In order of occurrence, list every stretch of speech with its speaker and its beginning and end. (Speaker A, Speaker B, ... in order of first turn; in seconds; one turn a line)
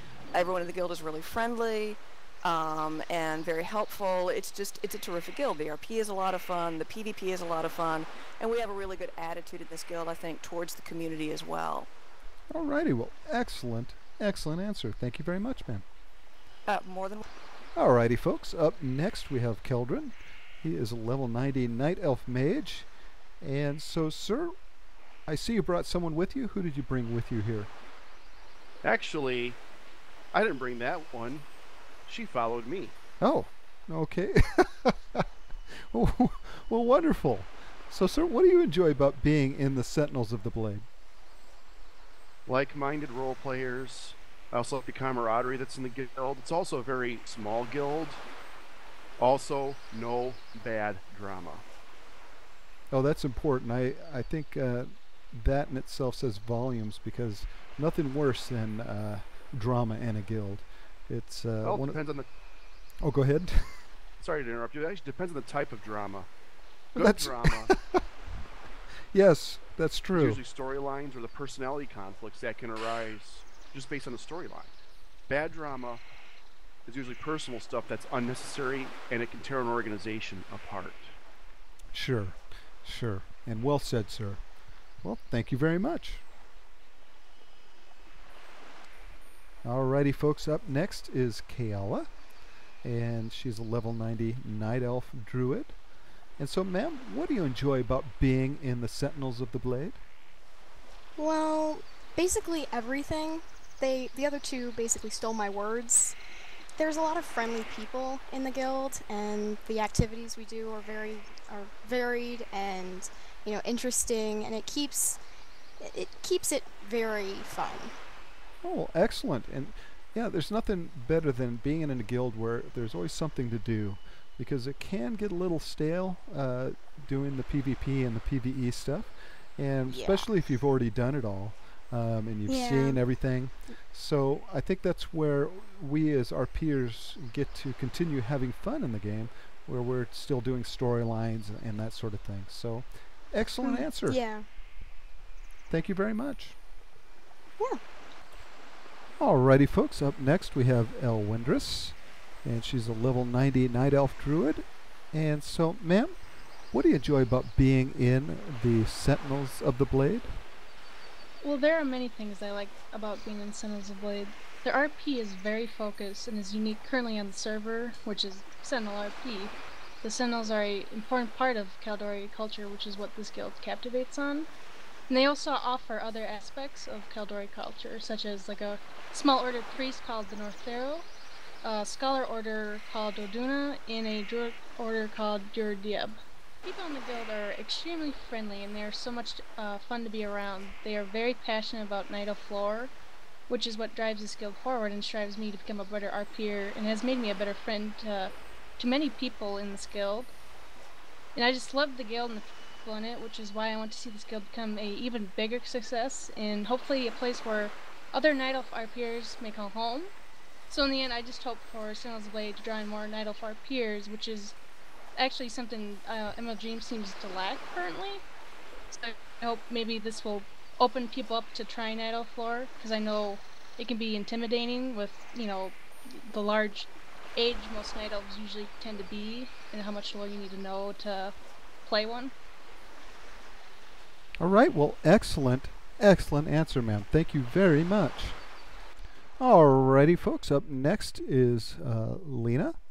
Speaker A: 0.3-11.9
Speaker B: 12.5-15.8
Speaker A: 16.7-17.2
Speaker B: 17.8-22.9
Speaker B: 23.4-24.5
Speaker B: 25.3-27.7
Speaker C: 28.8-29.6
Speaker C: 30.3-31.5
Speaker C: 32.0-32.9
Speaker B: 33.2-40.8
Speaker C: 42.5-48.2
Speaker C: 49.2-51.6
Speaker B: 52.9-62.0
Speaker C: 61.6-62.2
Speaker B: 63.0-63.8
Speaker C: 64.2-66.3
Speaker C: 66.9-67.7
Speaker B: 67.0-68.0
Speaker B: 69.1-70.4
Speaker C: 70.1-74.7
Speaker C: 75.3-76.0
Speaker C: 76.8-81.1
Speaker B: 81.9-84.4
Speaker B: 85.0-86.2
Speaker B: 89.6-92.1
Speaker B: 92.8-95.8
Speaker B: 96.4-100.0
Speaker D: 101.2-106.2
Speaker D: 106.8-115.2
Speaker D: 115.8-117.9
Speaker B: 118.6-144.2
Speaker D: 129.9-130.2
Speaker D: 132.5-133.0
Speaker D: 143.6-144.4
Speaker B: 145.7-146.6
Speaker B: 149.2-156.2
Speaker B: 156.7-160.4
Speaker E: 161.4-174.5
Speaker E: 175.1-181.1
Speaker E: 181.6-192.9
Speaker E: 193.5-200.3
Speaker E: 201.3-210.1
Speaker E: 210.7-214.5
Speaker E: 215.2-218.2
Speaker E: 218.9-231.3
Speaker E: 231.8-232.3
Speaker B: 234.4-238.4
Speaker B: 239.4-242.8